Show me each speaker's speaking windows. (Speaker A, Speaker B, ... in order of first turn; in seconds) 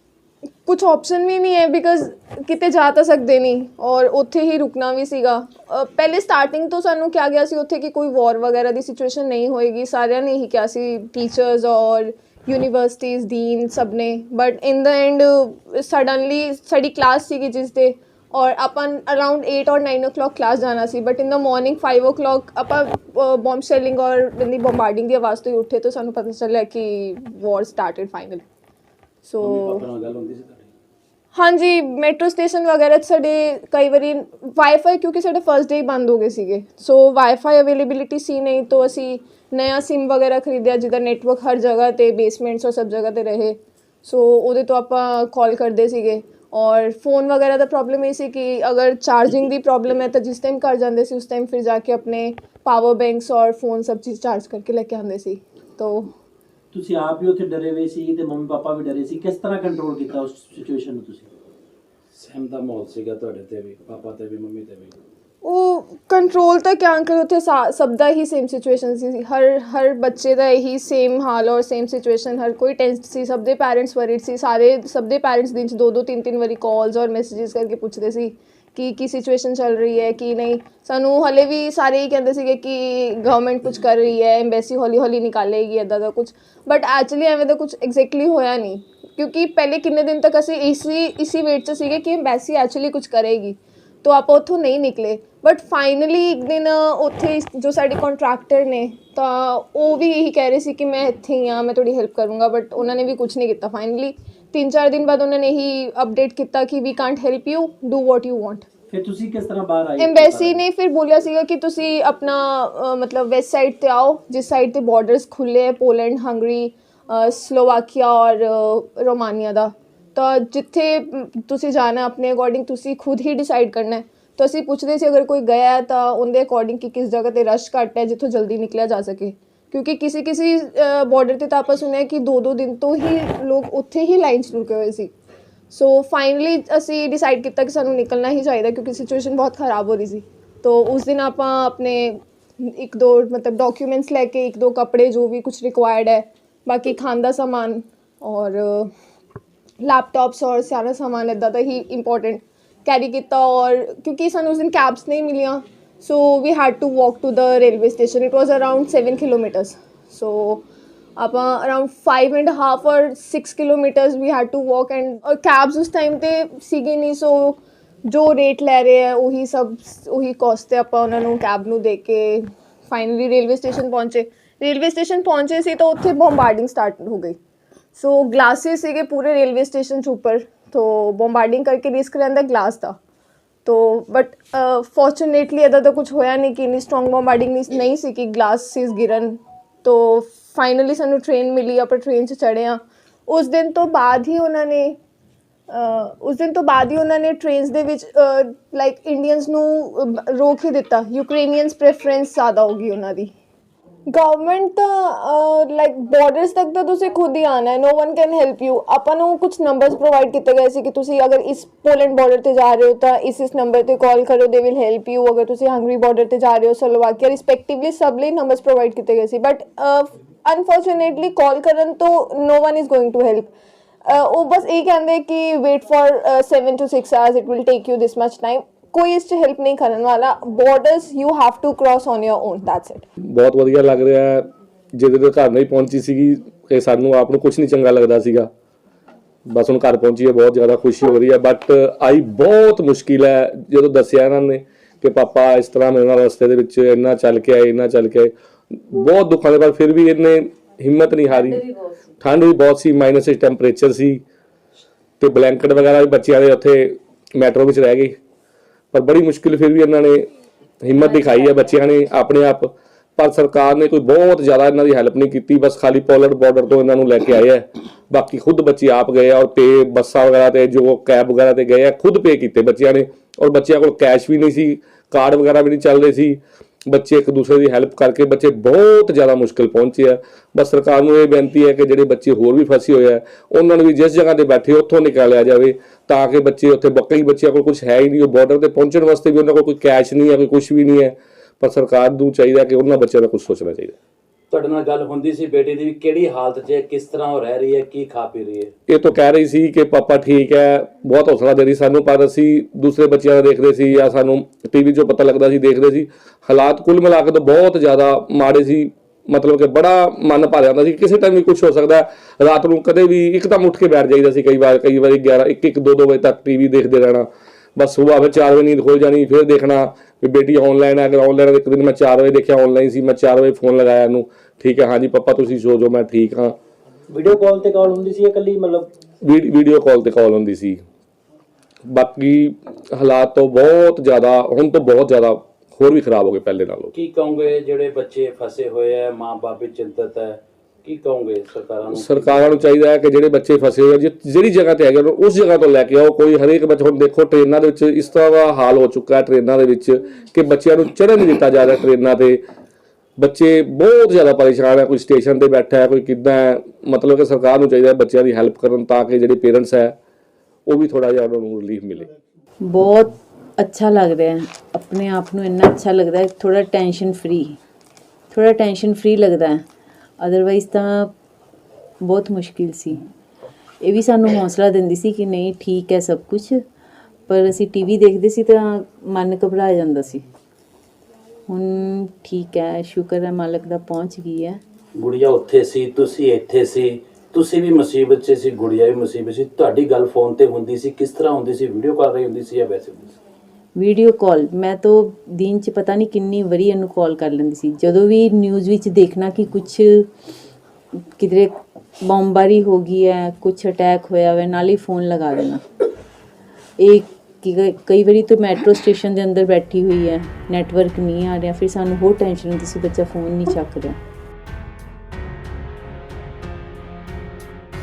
Speaker A: 0.7-28.4, 29.2-29.9, 31.3-56.1, 65.4-108.7, 110.0-135.1, 135.7-148.9, 149.8-160.6, 161.2-177.4, 178.0-183.0, 183.7-195.0, 195.7-203.3, 204.1-223.5, 224.1-233.1
Speaker B: 29.4-30.7, 62.1-65.0, 294.5-298.7, 336.9-342.5, 385.0-393.2
Speaker C: 56.7-61.3, 108.9-110.5, 327.1-328.9
Speaker D: 233.2-238.5, 239.5-251.6, 252.2-254.2, 255.2-258.1, 258.9-260.2, 260.8-276.4, 276.9-293.9, 298.9-317.3, 317.8-326.6, 329.2-330.8, 331.9-336.9, 341.9-352.4, 353.2-359.9, 360.7-362.1
Speaker E: 251.3-251.9, 261.0-261.7, 362.6-367.6, 368.3-369.6, 370.2-371.1, 372.0-373.0, 373.8-376.6, 377.3-380.2, 381.5-384.6, 393.8-400.1, 401.2-405.6, 406.8-414.0